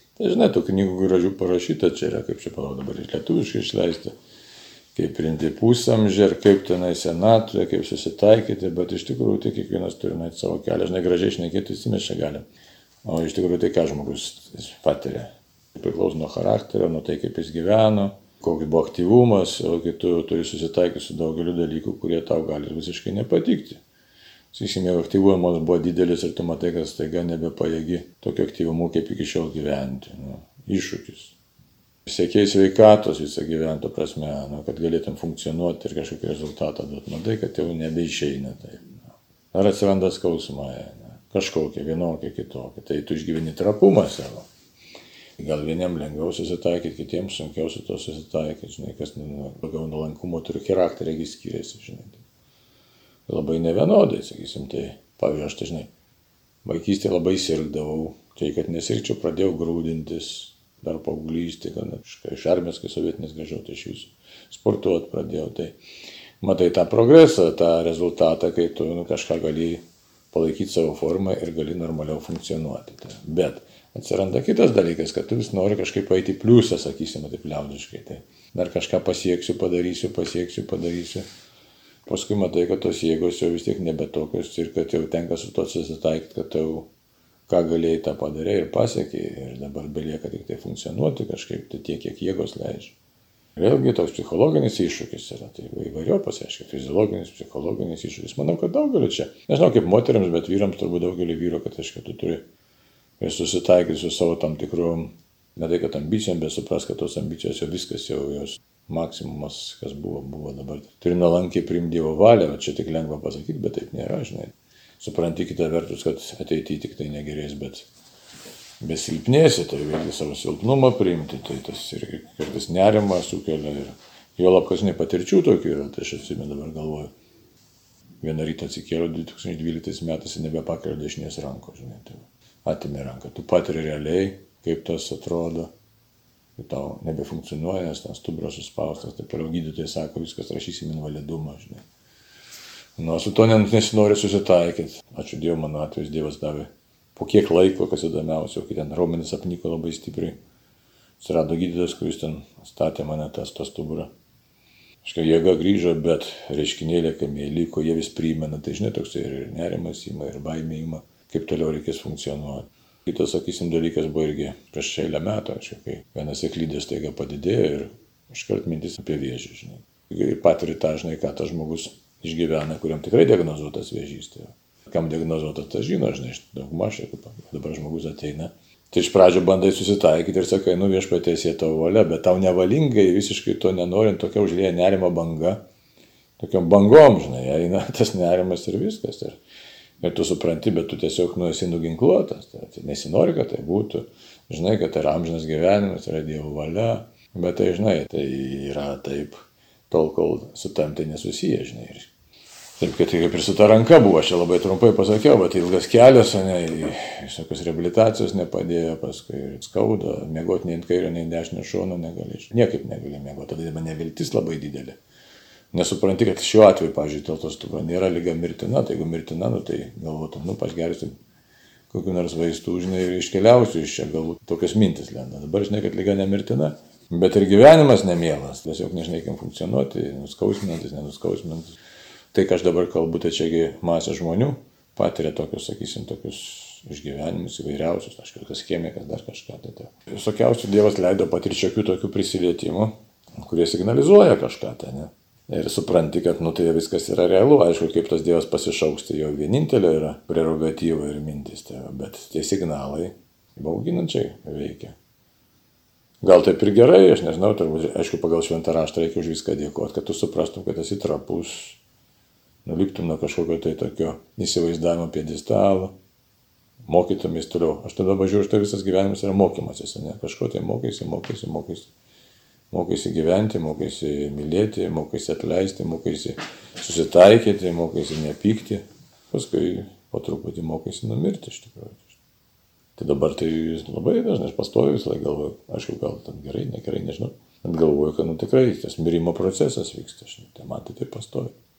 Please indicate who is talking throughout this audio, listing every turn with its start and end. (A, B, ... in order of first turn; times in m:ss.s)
0:00.2-0:04.1 A
0:04.9-0:12.4 A
0:13.0-0:23.8 A
0:24.5-0:31.3 A
0:32.0-0:44.5 A
0:45.4-0:52.2 A
0:53.3-0:55.9 A
0:56.6-1:05.8 A
1:06.4-1:21.2 A
1:22.0-1:26.9 A
1:27.5-1:32.9 A
1:33.6-1:42.4 A
1:43.2-1:57.9 A
1:58.8-2:07.1 A
2:08.2-2:15.7 A
2:16.6-2:21.8 A
2:23.0-2:30.4 A
2:31.2-2:34.1 A
2:35.0-3:05.6 A
3:06.4-3:09.4 A
3:10.0-3:22.1 A
3:22.8-3:35.0 A
3:35.7-3:41.2 A
3:41.9-3:51.7 A
3:52.3-4:15.0 A
4:16.2-4:21.8 A
4:22.6-4:25.9 A
4:26.8-4:31.9 A
4:32.7-4:42.2 A
4:43.0-4:51.5 A